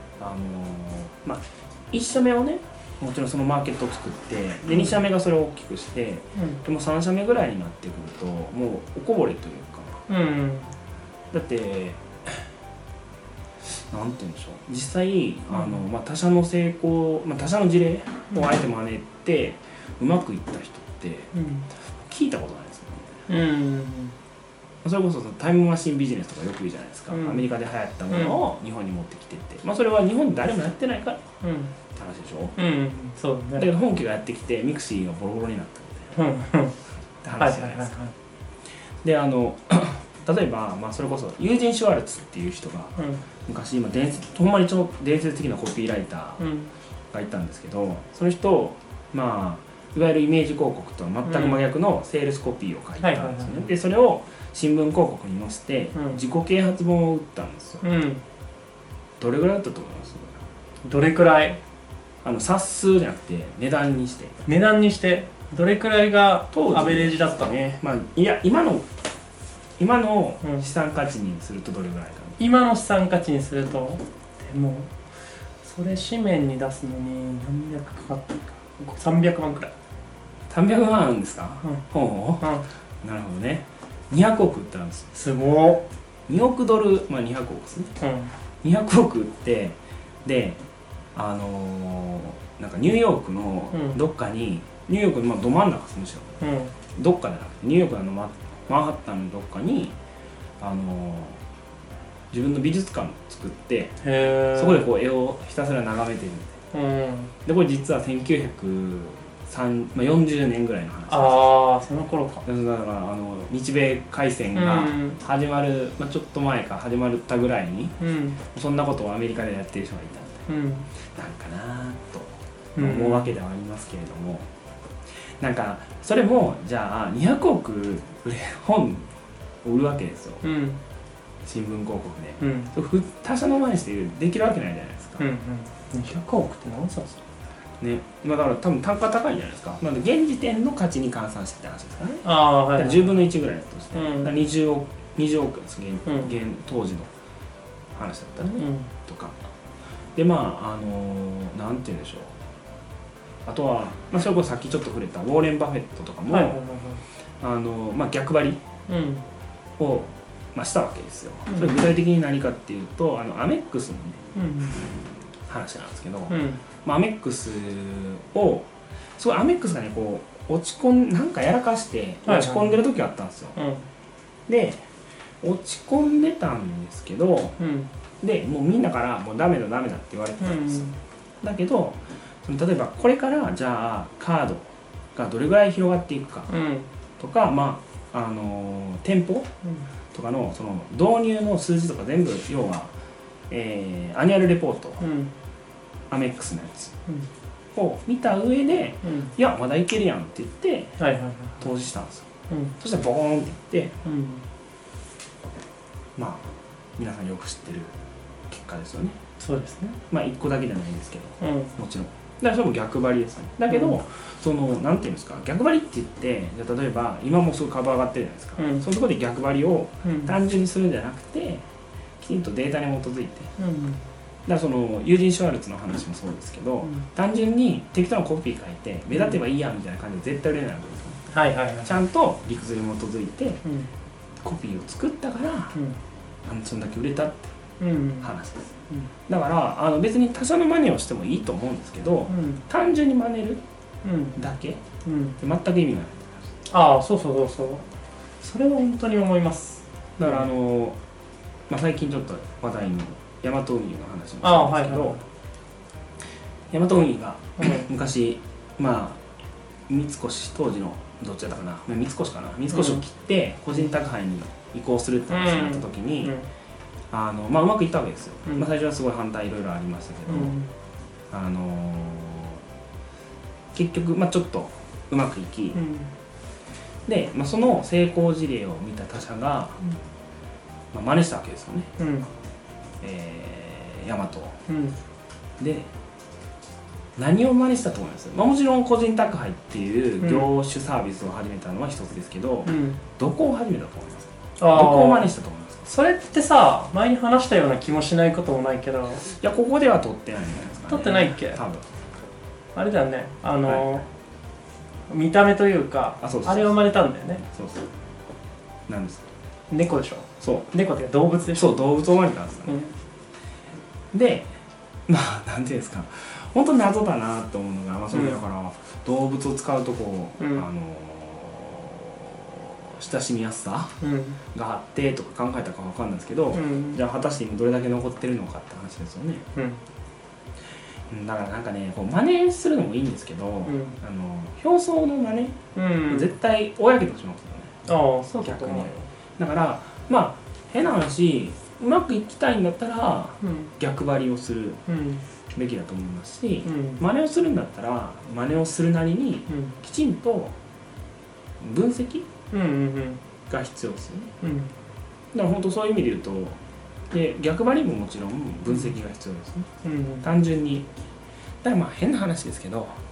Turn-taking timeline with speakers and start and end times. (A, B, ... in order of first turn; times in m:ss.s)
0:00.2-0:10.0 A
0:06.4-0:06.6 B
0:10.1-0:10.7 B
0:11.3-0:12.0 A
0:13.9-0:21.3 A
0:15.5-0:15.9 B
0:21.3-0:21.7 B
0:21.9-0:23.2 A
0:23.3-0:24.1 B
0:24.8-0:31.2 A
0:27.1-0:27.4 B
0:28.1-0:28.4 B
0:31.4-0:31.7 B
0:31.9-0:32.6 A
0:32.6-0:33.7 B
0:33.6-0:36.2 A
0:36.1-0:36.8 B
0:37.2-0:37.9 A
0:37.4-0:38.1 B
0:39.0-0:46.4 A
0:43.0-0:43.2 B
0:46.4-0:46.7 B
0:47.1-0:57.8 A
0:51.2-0:51.6 B
0:53.0-0:53.7 B
0:55.9-0:56.2 B
0:57.8-0:58.2 B
0:59.2-1:00.4 A
1:00.8-1:01.6 B
1:02.2-1:04.4 A
1:04.4-1:07.6 B
1:06.5-1:08.9 A
1:09.8-1:12.4 A
1:10.4-1:10.7 B
1:12.4-1:14.9 B
1:15.6-1:19.7 B
1:20.5-1:25.1 A
1:25.1-1:25.8 B
1:26.3-1:27.9 A
1:28.0-1:28.3 B
1:28.6-1:30.6 A
1:31.1-1:36.4 A
1:33.7-1:34.0 B
1:36.4-1:36.7 B
1:36.9-1:39.9 A
1:40.6-1:41.4 A
1:42.3-1:46.6 A
1:44.0-1:44.9 B
1:46.7-1:47.3 B
1:47.4-1:51.6 A
1:51.1-1:52.4 B
1:52.4-2:00.5 A
1:54.5-1:55.2 B
1:58.0-1:58.4 B
2:00.5-2:00.9 B
2:01.1-2:04.5 A
2:02.8-2:03.3 B
2:05.4-2:09.1 A
2:09.6-2:10.5 A
2:10.4-2:10.8 B
2:11.4-2:15.3 A
2:12.4-2:12.7 B
2:15.2-2:17.2 B
2:17.8-2:27.1 A
2:22.2-2:23.2 B
2:23.9-2:24.4 B
2:26.1-2:26.3 B
2:28.0-2:29.4 A
2:28.6-2:28.9 B
2:30.2-2:32.4 A
2:33.4-2:36.6 A
2:36.3-2:37.0 B
2:37.4-2:38.6 A
2:38.9-2:39.2 B
2:39.8-2:44.2 A
2:41.5-2:41.9 B
2:44.3-2:44.8 B
2:45.5-2:53.6 A
2:46.3-2:46.6 B
2:52.2-2:52.8 B
2:53.6-2:53.9 B
2:54.5-2:54.8 A
2:55.4-2:57.6 A
2:57.6-2:57.9 B
2:58.2-3:00.9 A
3:00.4-3:01.0 B
3:01.4-3:06.5 A
3:06.5-3:06.9 B
3:07.2-3:09.5 A
3:10.1-3:12.9 A
3:13.5-3:15.0 A
3:15.0-3:15.3 B
3:16.1-3:16.9 A
3:17.8-3:21.0 A
3:19.0-3:19.3 B
3:21.0-3:21.6 B
3:21.6-3:22.3 A
3:22.5-3:22.8 B
3:22.8-3:24.0 A
3:24.0-3:24.4 B
3:26.2-3:27.9 A
3:28.5-3:29.2 A
3:29.4-3:30.0 B
3:30.1-3:41.6 A
3:31.4-3:31.8 B
3:33.7-3:34.0 B
3:38.6-3:38.9 B
3:40.0-3:40.4 B
3:42.2-3:43.5 A
3:43.6-3:44.0 B
3:44.4-3:51.2 A
3:49.1-3:49.4 B
3:51.3-3:52.0 B
3:51.8-3:53.6 A
3:54.4-3:55.8 A
3:56.4-3:57.5 A
3:57.8-3:58.3 B
3:58.2-3:58.7 A
3:59.3-4:03.6 A
4:02.3-4:02.6 B
4:04.0-4:04.4 B
4:04.4-4:04.8 A
4:05.0-4:05.4 B
4:05.4-4:06.4 A
4:06.7-4:07.8 B
4:08.4-4:10.5 B
4:10.2-4:11.0 A
4:11.7-4:15.2 A
4:14.4-4:15.2 B
4:16.7-4:19.2 A
4:17.6-4:17.9 B
4:19.9-4:26.3 A
4:22.7-4:23.0 B
4:25.3-4:26.5 B
4:27.1-4:30.6 A
4:30.3-4:30.7 B
4:31.3-4:32.6 A
4:33.7-4:35.8 A
4:35.8-4:36.1 B
4:37.1-4:39.8 A
4:40.9-4:41.9 A
4:42.0-4:42.3 B
4:43.0-4:44.6 A
4:44.7-4:45.0 B
4:45.6-4:45.9 A
4:47.2-4:55.8 A
4:50.2-4:50.5 B
4:52.7-4:53.0 B
4:54.6-4:55.3 B
4:55.8-4:59.3 B
4:59.2-5:01.8 A
5:00.9-5:01.6 B
5:02.8-5:04.0 B
5:03.6-5:04.0 A
5:05.1-5:07.4 B
5:06.2-5:07.9 A
5:08.9-5:09.3 A
5:09.7-5:11.7 B
5:10.4-5:10.7 A
5:11.5-5:12.8 A
5:12.7-5:12.9 B
5:14.1-5:14.5 A
5:15.1-5:24.0 A
5:18.1-5:18.4 B
5:20.4-5:20.6 B
5:24.0-5:24.4 B
5:24.5-5:29.5 A
5:26.5-5:27.0 B
5:29.6-5:29.8 B
5:31.1-5:37.7 A
5:33.7-5:34.0 B
5:35.8-5:36.3 B
5:37.9-5:39.0 B
5:38.4-5:44.8 A
5:43.4-5:43.7 B
5:44.9-5:45.2 B
5:45.5-5:50.6 A
5:46.6-5:47.0 B
5:49.5-5:49.8 B
5:51.6-5:52.3 A
5:52.5-5:53.2 B
5:53.5-5:54.3 A
5:54.4-5:54.7 B
5:55.3-5:56.6 A
5:57.1-5:59.7 A
5:59.8-6:00.3 B
6:00.2-6:00.9 A
6:01.6-6:03.0 A